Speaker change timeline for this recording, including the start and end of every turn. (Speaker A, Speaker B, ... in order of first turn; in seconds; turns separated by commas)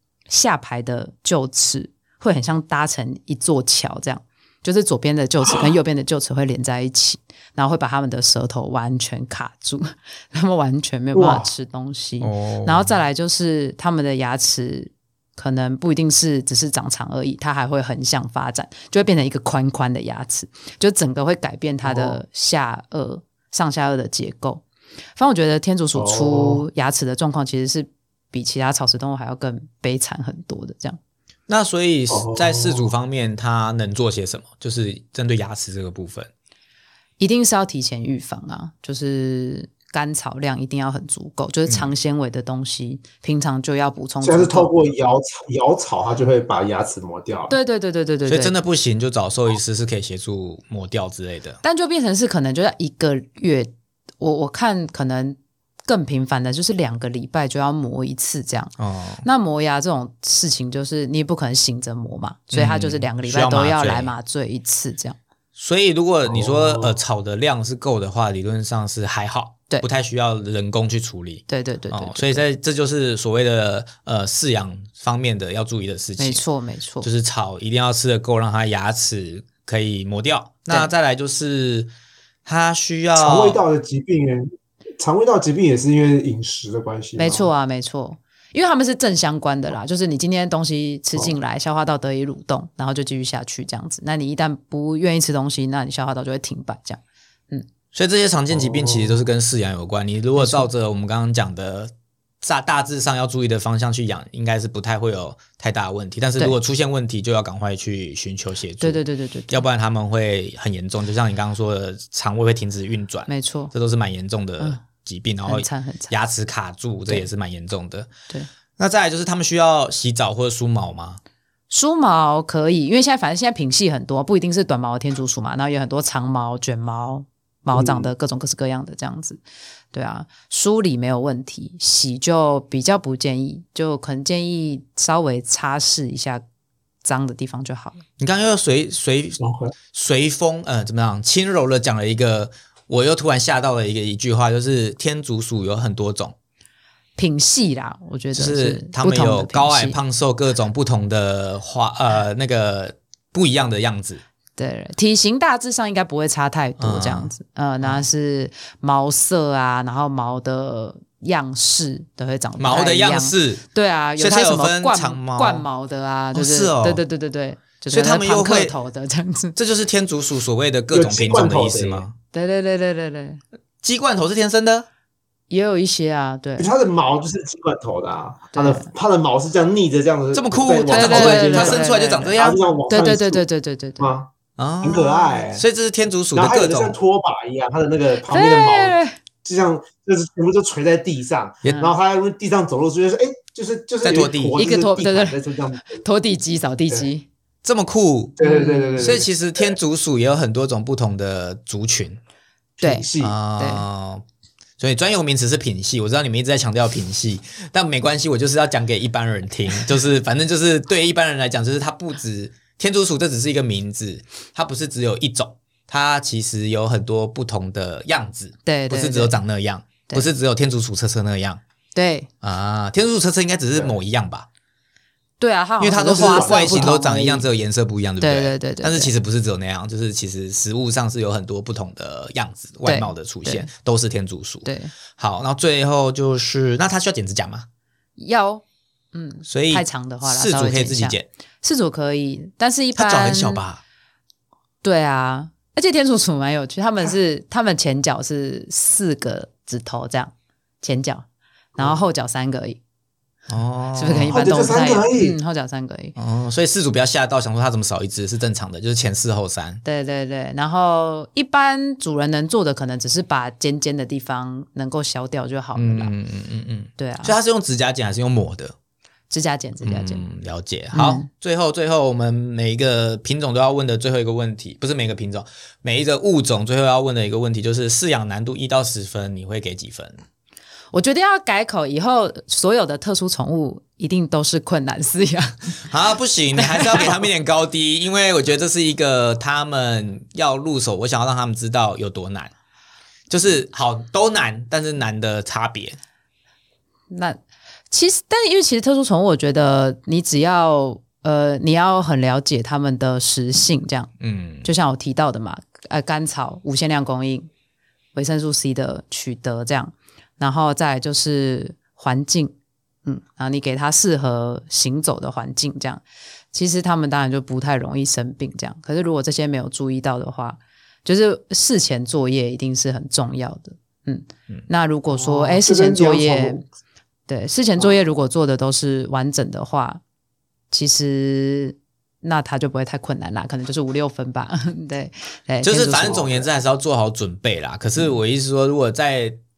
Speaker A: 0.3-24.6, Speaker B: 5.5-5.7, Speaker B: 11.1-11.5, Speaker C: 12.2-12.9, Speaker B: 21.8-22.2, Speaker A: 25.2-31.0, Speaker B: 25.9-26.6, Speaker C: 31.5-36.3, Speaker B: 32.1-32.9, Speaker A: 37.2-44.7, Speaker C: 41.7-41.9, Speaker B: 44.2-47.6, Speaker A: 47.5-48.5, Speaker C: 48.3-51.6, Speaker A: 51.6-58.7, Speaker C: 58.8-59.2, Speaker A: 59.2-65.2, Speaker C: 62.5-64.1, Speaker C: 65.6-76.4, Speaker B: 66.3-67.0, Speaker A: 71.5-72.4, Speaker A: 76.2-77.1, Speaker C: 77.0-81.9, Speaker C: 82.4-83.6, Speaker B: 83.2-87.5, Speaker A: 87.2-97.0, Speaker C: 97.9-118.1, Speaker B: 98.5-99.2, Speaker A: 100.4-100.7, Speaker A: 108.8-109.6, Speaker A: 113.3-113.7, Speaker A: 115.5-116.1, Speaker C: 118.8-121.2, Speaker A: 121.7-129.4, Speaker B: 127.7-128.1, Speaker A: 129.9-136.4, Speaker A: 137.0-138.0, Speaker C: 138.2-139.4, Speaker B: 139.4-139.7, Speaker C: 139.9-146.3, Speaker A: 147.2-150.0, Speaker C: 148.3-154.2, Speaker A: 154.6-169.6, Speaker C: 156.8-158.1, Speaker C: 162.6-163.6, Speaker C: 164.2-165.6, Speaker C: 166.3-167.0, Speaker C: 167.9-168.7, Speaker C: 169.6-172.1, Speaker B: 170.9-172.1, Speaker A: 172.3-173.4, Speaker C: 173.8-174.9, Speaker A: 175.5-176.7, Speaker B: 176.6-183.4, Speaker A: 178.5-178.9, Speaker C: 180.3-182.6, Speaker A: 180.9-182.4, Speaker A: 182.9-184.1, Speaker B: 184.0-184.3, Speaker C: 184.6-187.0, Speaker B: 184.8-185.6, Speaker B: 186.3-196.1, Speaker A: 188.3-189.1, Speaker C: 194.0-194.6, Speaker A: 194.6-195.4, Speaker A: 196.0-197.2, Speaker C: 197.6-198.4, Speaker B: 198.4-199.8, Speaker A: 198.4-199.1, Speaker C: 199.0-202.2, Speaker B: 202.8-203.4, Speaker A: 202.8-203.9, Speaker C: 203.2-204.2, Speaker C: 204.8-221.6, Speaker A: 218.7-219.4, Speaker A: 221.9-222.3, Speaker C: 222.4-224.5, Speaker A: 225.4-227.5, Speaker C: 225.8-237.7, Speaker B: 226.0-227.0, Speaker A: 228.2-229.1, Speaker A: 232.9-233.7, Speaker A: 234.6-234.9, Speaker A: 238.2-243.6, Speaker C: 239.5-241.3, Speaker C: 242.9-243.8, Speaker A: 244.8-251.2, Speaker A: 251.8-252.8, Speaker C: 253.5-254.4, Speaker A: 254.0-256.1, Speaker B: 254.3-255.4, Speaker C: 256.2-259.8, Speaker A: 259.9-266.1, Speaker C: 265.8-268.7, Speaker A: 267.0-267.4, Speaker A: 269.3-270.2, Speaker C: 269.8-280.2, Speaker A: 270.9-271.3, Speaker A: 280.9-285.8, Speaker C: 285.9-292.5, Speaker A: 286.6-287.2, Speaker C: 293.3-296.0, Speaker A: 297.1-297.4, Speaker A: 297.9-304.1, Speaker C: 304.2-304.7, Speaker A: 304.6-307.5, Speaker A: 308.1-312.5, Speaker A: 313.1-316.0, Speaker A: 316.5-326.6, Speaker B: 325.1-326.6, Speaker A: 327.3-330.0, Speaker A: 330.7-336.4, Speaker C: 335.6-339.4, Speaker B: 336.0-336.4